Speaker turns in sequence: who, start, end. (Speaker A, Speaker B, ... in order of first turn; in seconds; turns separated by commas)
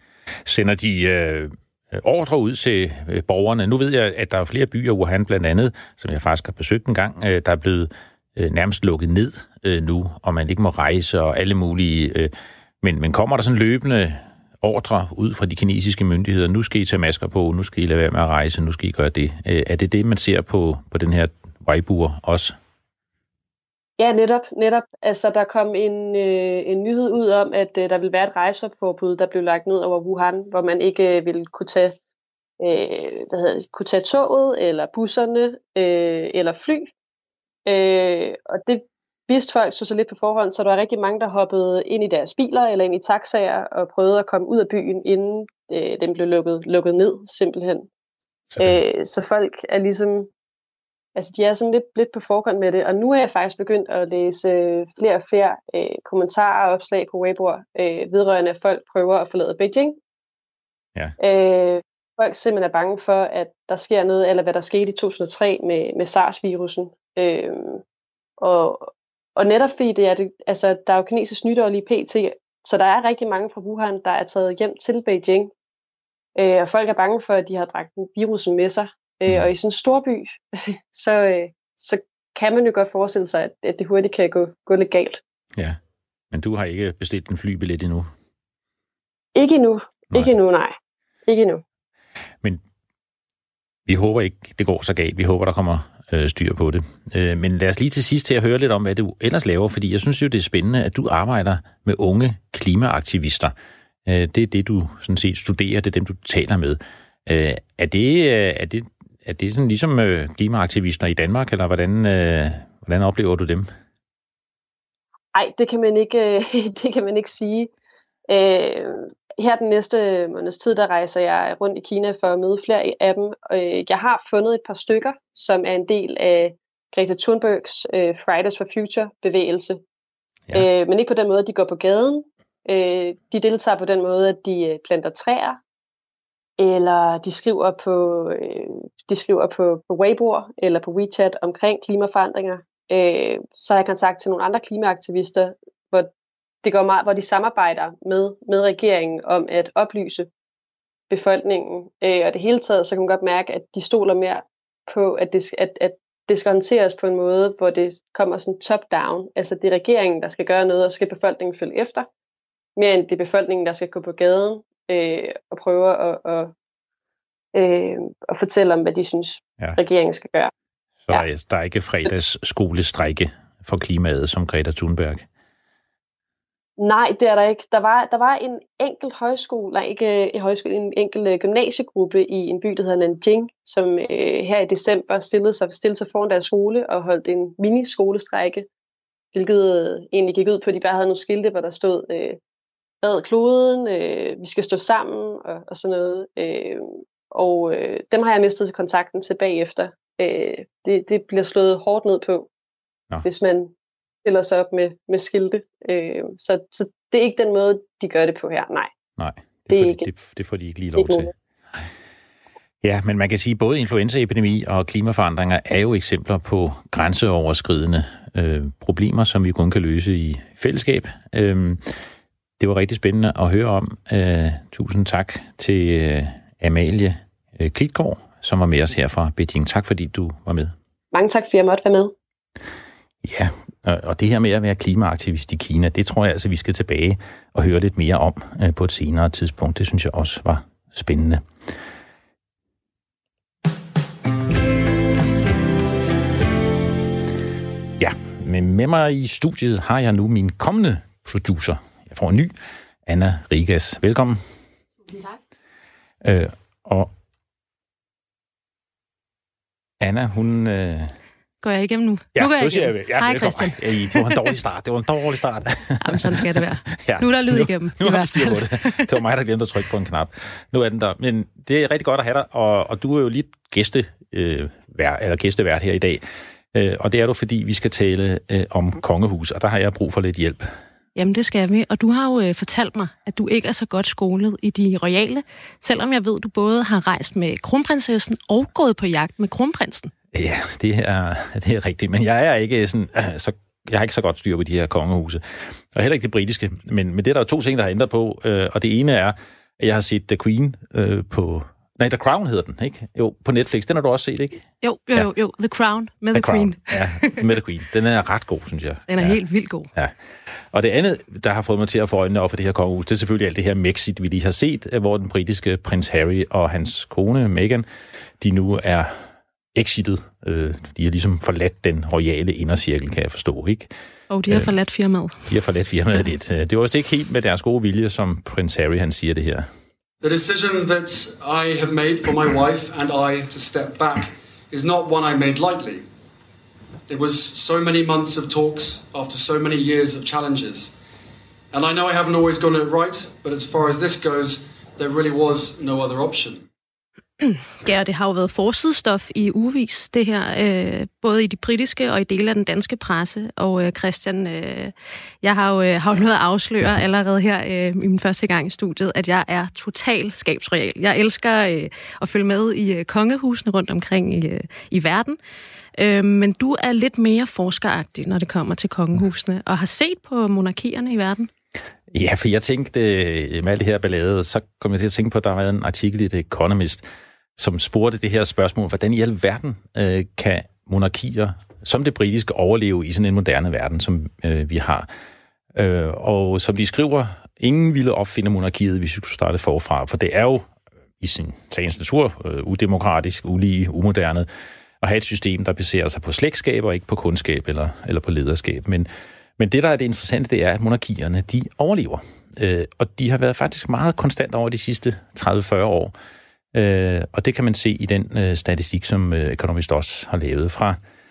Speaker A: 0.4-22.5, Speaker B: 24.0-32.0, Speaker B: 32.6-36.9, Speaker B: 37.6-47.9, Speaker A: 48.5-48.8, Speaker B: 48.6-50.3, Speaker B: 51.1-60.0, Speaker B: 61.2-67.8, Speaker B: 68.4-75.5, Speaker B: 76.3-85.2, Speaker A: 86.3-88.1, Speaker B: 89.3-90.8, Speaker B: 91.3-91.6, Speaker A: 93.9-103.5, Speaker A: 104.0-113.7, Speaker B: 115.3-117.7, Speaker B: 118.3-129.8, Speaker B: 130.5-135.6, Speaker B: 136.6-146.1, Speaker B: 146.6-150.3, Speaker B: 151.1-162.1, Speaker B: 162.8-166.5, Speaker B: 167.5-170.5, Speaker A: 171.1-175.2, Speaker B: 176.8-188.7, Speaker B: 189.3-192.4, Speaker B: 193.0-202.5, Speaker B: 203.2-203.7, Speaker B: 204.2-208.9, Speaker A: 209.2-211.8, Speaker B: 209.7-210.1, Speaker B: 210.9-211.3, Speaker A: 212.8-221.8, Speaker A: 222.6-230.7, Speaker B: 231.1-232.1, Speaker A: 233.2-241.4, Speaker A: 248.0-252.5, Speaker A: 253.1-254.4, Speaker A: 256.2-257.1, Speaker A: 260.0-261.1, Speaker C: 261.6-264.5, Speaker A: 262.3-280.7, Speaker C: 266.0-269.1, Speaker C: 281.1-290.1, Speaker A: 290.3-305.3, Speaker C: 304.8-307.4, Speaker A: 306.3-309.4, Speaker C: 309.1-309.9, Speaker A: 310.7-317.9, Speaker A: 318.4-319.1, Speaker A: 319.7-323.9, Speaker C: 324.3-325.4, Speaker A: 325.4-329.7, Speaker D: 330.2-336.1, Speaker D: 337.1-340.9, Speaker D: 341.7-346.6, Speaker C: 347.4-365.4, Speaker C: 366.0-371.5, Speaker A: 372.1-377.0, Speaker A: 377.6-385.1, Speaker A: 385.7-390.7, Speaker A: 391.2-394.5, Speaker A: 395.0-406.1, Speaker A: 406.7-411.0